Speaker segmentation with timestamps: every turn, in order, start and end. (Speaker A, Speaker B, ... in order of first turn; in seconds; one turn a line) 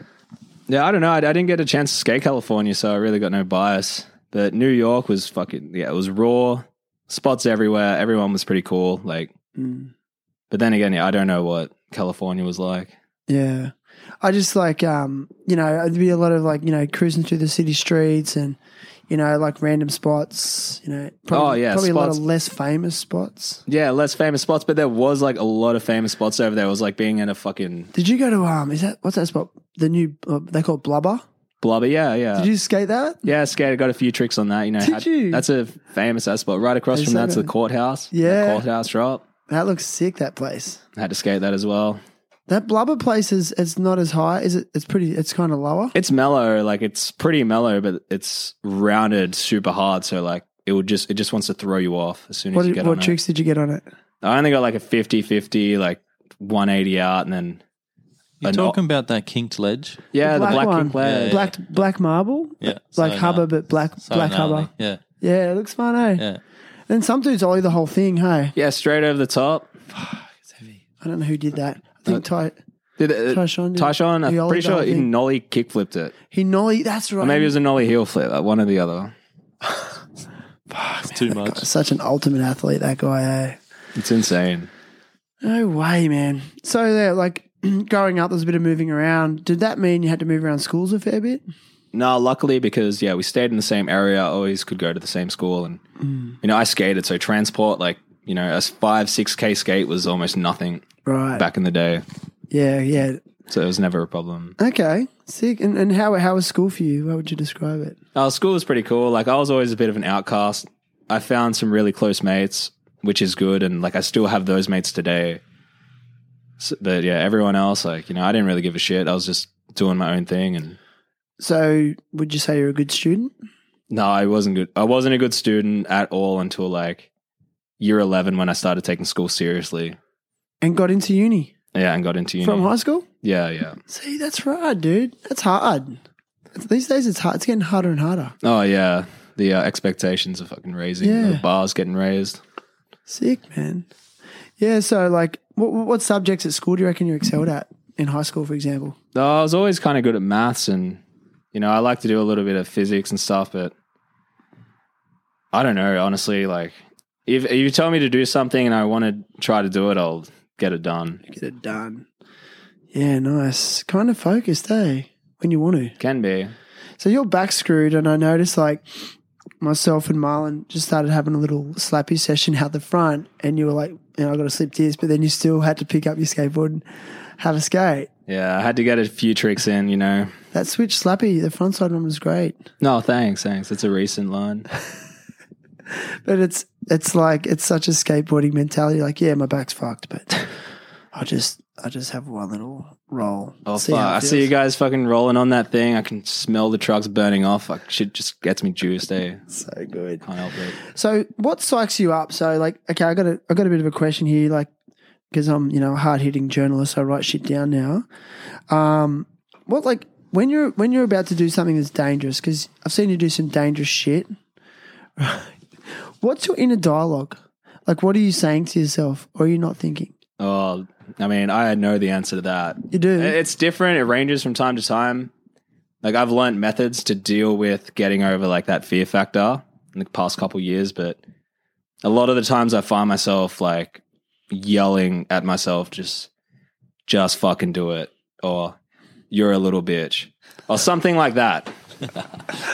Speaker A: 0.7-9.3
Speaker B: 9.6-9.9
Speaker A: 10.5-12.9
Speaker B: 13.3-18.6
Speaker B: 19.1-23.6
Speaker A: 21.3-22.2
Speaker A: 23.7-27.9
Speaker B: 27.9-31.2
Speaker A: 31.6-32.5
Speaker B: 32.3-33.2
Speaker A: 33.2-39.2
Speaker B: 34.8-35.4
Speaker B: 36.9-37.5
Speaker B: 38.1-38.6
Speaker B: 39.5-40.8
Speaker A: 41.0-42.0
Speaker B: 42.5-45.9
Speaker A: 45.9-53.2
Speaker B: 52.5-53.8
Speaker A: 54.2-57.6
Speaker C: 58.4-60.1
Speaker A: 58.4-58.8
Speaker A: 60.1-61.5
Speaker B: 60.2-64.7
Speaker C: 61.0-61.5
Speaker C: 62.6-63.5
Speaker C: 64.0-65.0
Speaker B: 65.2-66.2
Speaker B: 66.9-68.5
Speaker A: 68.5-69.7
Speaker B: 70.0-70.2
Speaker B: 71.0-72.6
Speaker A: 73.0-76.1
Speaker B: 73.3-75.1
Speaker B: 76.3-77.5
Speaker A: 77.2-79.1
Speaker B: 80.7-83.6
Speaker C: 81.1-81.7
Speaker A: 83.9-84.7
Speaker B: 85.4-91.4
Speaker A: 91.9-95.8
Speaker B: 96.0-96.3
Speaker A: 96.4-100.8
Speaker B: 101.0-101.4
Speaker A: 101.3-102.0
Speaker B: 102.5-103.2
Speaker A: 103.5-104.5
Speaker B: 104.6-108.0
Speaker A: 108.1-115.4
Speaker A: 116.6-120.8
Speaker B: 121.4-123.3
Speaker A: 123.9-127.1
Speaker A: 127.8-130.0
Speaker B: 130.6-131.5
Speaker A: 131.7-132.7
Speaker B: 132.4-133.0
Speaker A: 133.2-133.8
Speaker B: 133.9-136.0
Speaker B: 136.5-138.3
Speaker A: 138.4-142.4
Speaker B: 141.0-141.4
Speaker B: 143.1-143.9
Speaker B: 144.6-148.9
Speaker A: 149.1-151.0
Speaker A: 151.5-153.7
Speaker A: 155.5-156.7
Speaker A: 157.3-161.2
Speaker B: 161.3-162.0
Speaker B: 162.9-165.9
Speaker A: 166.0-166.5
Speaker B: 167.0-176.8
Speaker B: 177.4-178.1
Speaker A: 178.3-180.3
Speaker B: 180.5-182.6
Speaker A: 182.8-184.7
Speaker B: 186.0-190.5
Speaker B: 191.1-194.5
Speaker A: 193.7-199.4
Speaker B: 199.5-200.2
Speaker A: 200.2-200.8
Speaker B: 200.8-204.7
Speaker B: 205.3-208.1
Speaker B: 208.7-214.3
Speaker B: 215.2-220.1
Speaker A: 220.4-225.3
Speaker B: 222.9-223.4
Speaker A: 226.0-231.2
Speaker A: 232.0-236.3
Speaker A: 237.1-238.8
Speaker A: 239.3-241.7